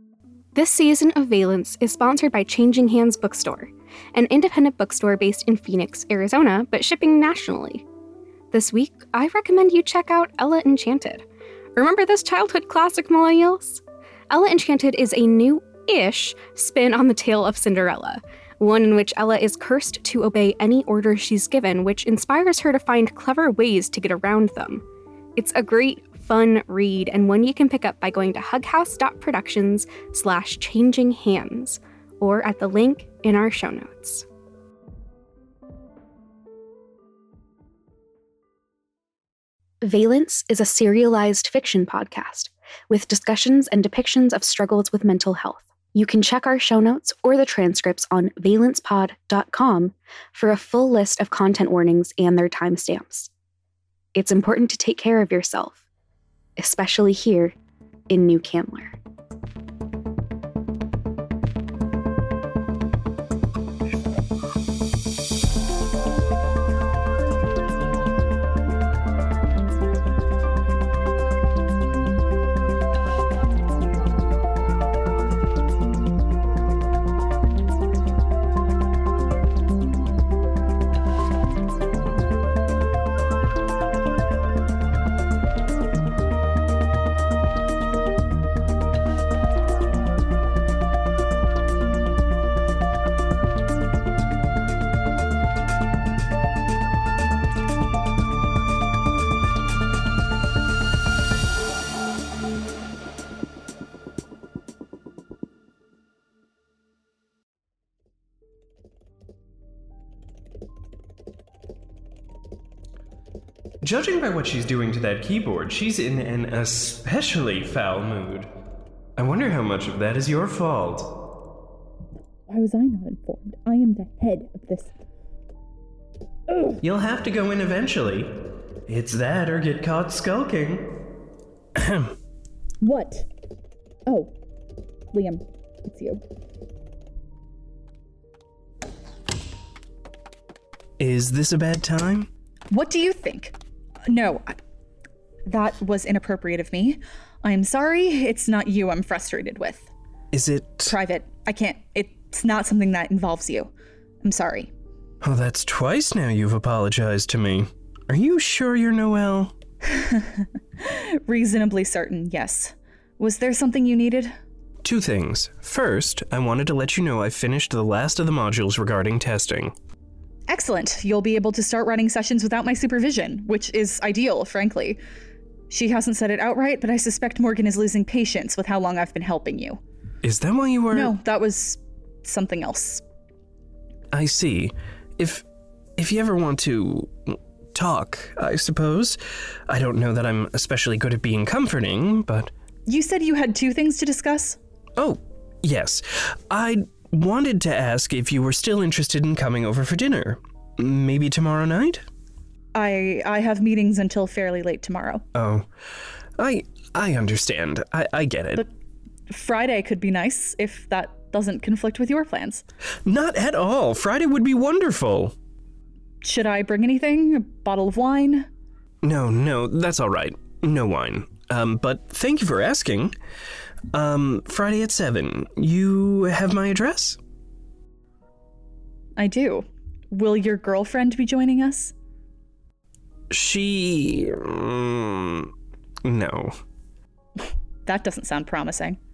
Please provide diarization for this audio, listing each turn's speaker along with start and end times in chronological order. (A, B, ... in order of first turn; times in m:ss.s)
0:00.5-0:07.8 A
0:08.5-0:24.8 A
0:25.4-0:34.2 A
0:39.8-0:53.3 A
0:54.1-0:55.8 A
0:56.6-0:57.5 A
0:58.1-0:58.9 A
1:53.8-1:58.5 B
1:59.2-2:01.1 B
2:02.5-2:04.9 C
2:06.5-2:06.8 C
2:06.8-2:08.3 B
2:08.9-2:10.9 B
2:11.8-2:12.2 B
2:12.8-2:13.3 C
2:14.0-2:14.3 C
2:15.1-2:16.2 C
2:21.0-2:22.3 B
2:22.7-2:24.6 C
2:25.5-2:29.9 C
2:30.3-2:30.9 B
2:30.8-2:34.7 C
2:35.2-2:39.5 B
2:39.8-2:44.4 C
2:44.8-2:49.7 B
2:50.5-2:55.0 C
2:55.7-2:59.8 C
3:00.2-3:01.1 B
3:00.9-3:03.0 C
3:04.1-3:05.4 B
3:06.0-3:09.2 B
3:09.7-3:12.5 B
3:12.8-3:14.6 C
3:15.0-3:22.0 B
3:22.7-3:25.2 C
3:25.3-3:25.7 B
3:26.4-3:28.6 B
3:29.3-3:32.6 C
3:33.0-3:35.3 B
3:36.2-3:38.5 C
3:39.0-3:43.1 B
3:43.9-3:47.2 B
3:49.2-3:51.9 C
3:53.3-3:55.5 B
3:56.0-3:56.6 B
3:57.4-3:59.0 C